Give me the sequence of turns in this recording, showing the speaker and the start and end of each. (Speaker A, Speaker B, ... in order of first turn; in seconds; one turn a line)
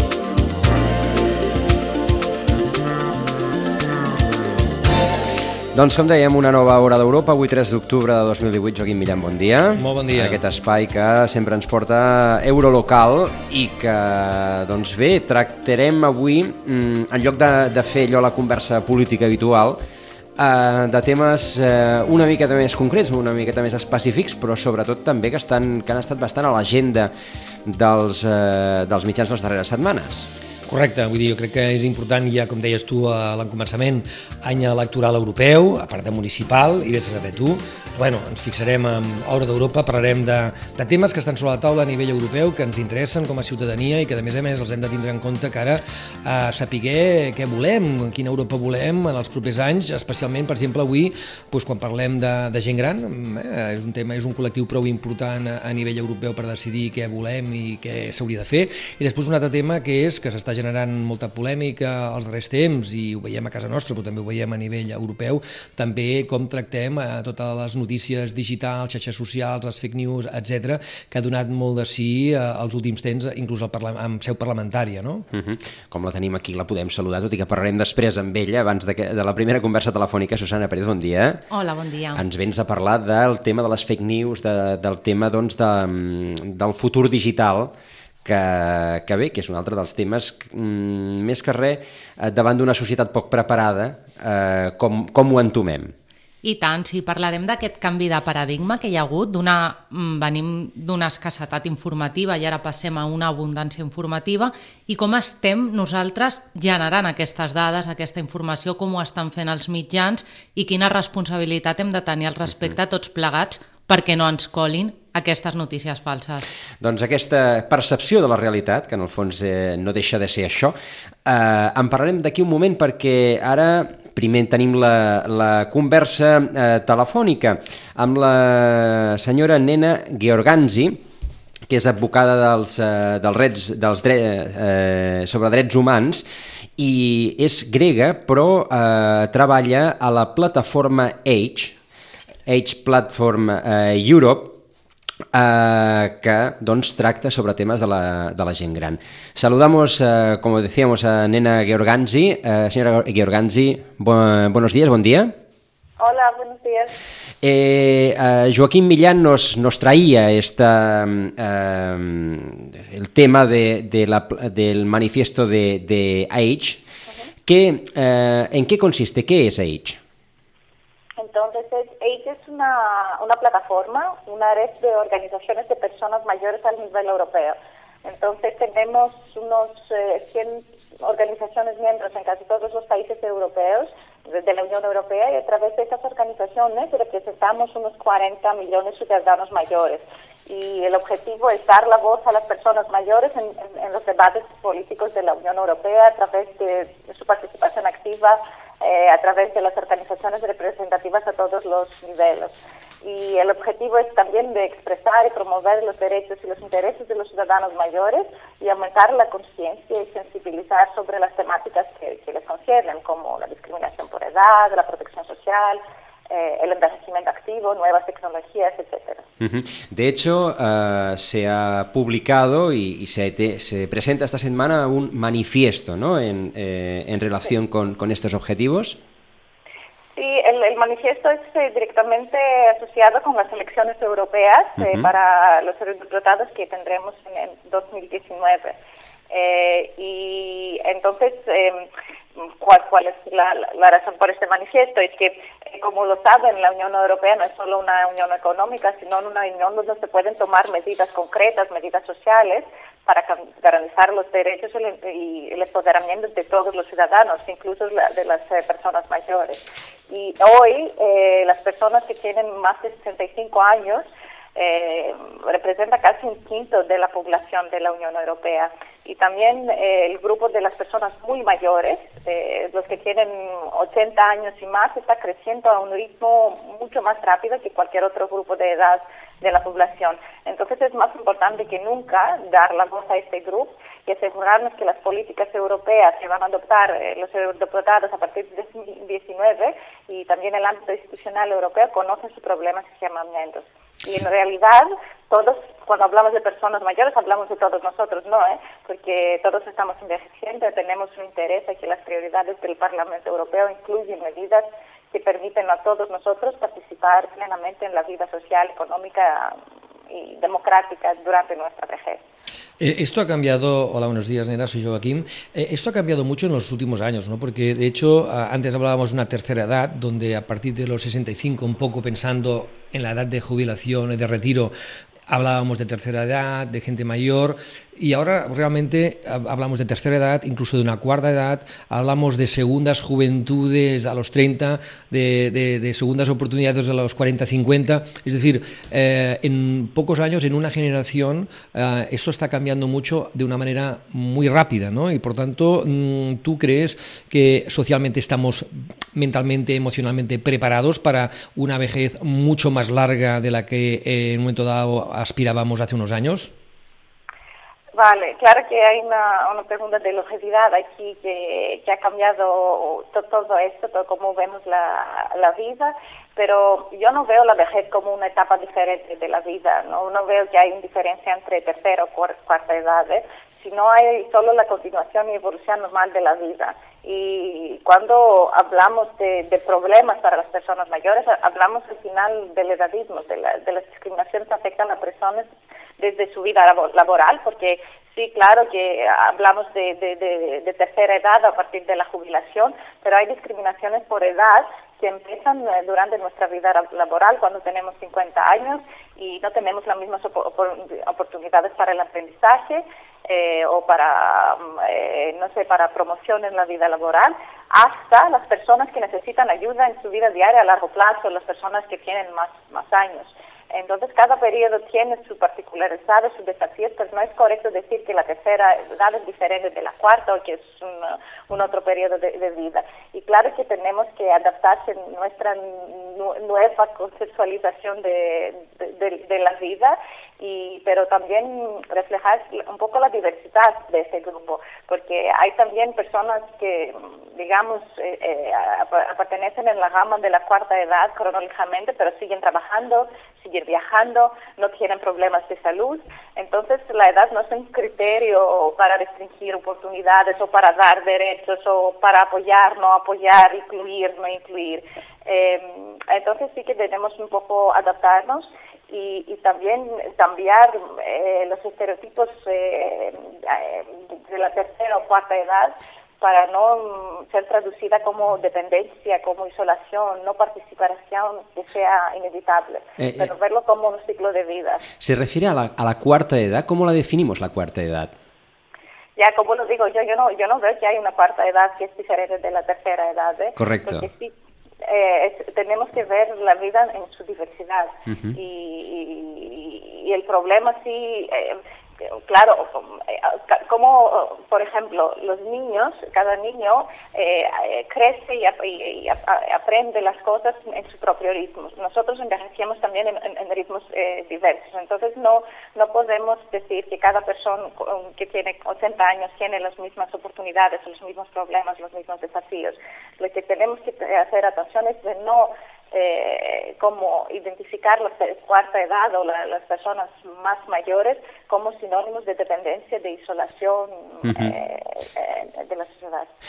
Speaker A: 5.7-19.8
Speaker B: 9.8-10.4
Speaker A: 20.4-27.1
Speaker A: 27.6-30.3
Speaker B: 30.7-75.2
Speaker A: 75.3-81.4
Speaker C: 81.5-82.2
Speaker A: 82.1-87.7
Speaker A: 88.2-95.9
Speaker C: 96.4-116.4
Speaker A: 116.8-131.0
Speaker A: 131.7-136.2
Speaker A: 136.8-141.7
Speaker A: 142.5-144.6
Speaker A: 145.3-155.3
Speaker D: 156.0-156.9
Speaker A: 157.4-166.8
Speaker A: 167.4-170.0
Speaker D: 171.2-219.2
Speaker A: 219.4-229.0
Speaker D: 230.2-238.7
Speaker A: 234.8-235.1
Speaker D: 239.3-241.9
Speaker D: 242.6-264.0
Speaker D: 264.6-309.6
Speaker D: 310.1-312.2
Speaker B: 312.8-324.7
Speaker B: 325.3-356.5
Speaker D: 357.9-385.5
Speaker D: 386.0-474.9
Speaker A: 473.0-473.3
Speaker A: 475.0-478.1
Speaker D: 479.2-484.3
Speaker A: 483.6-484.1
Speaker D: 484.9-491.6
Speaker D: 492.3-526.3
Speaker A: 524.2-524.5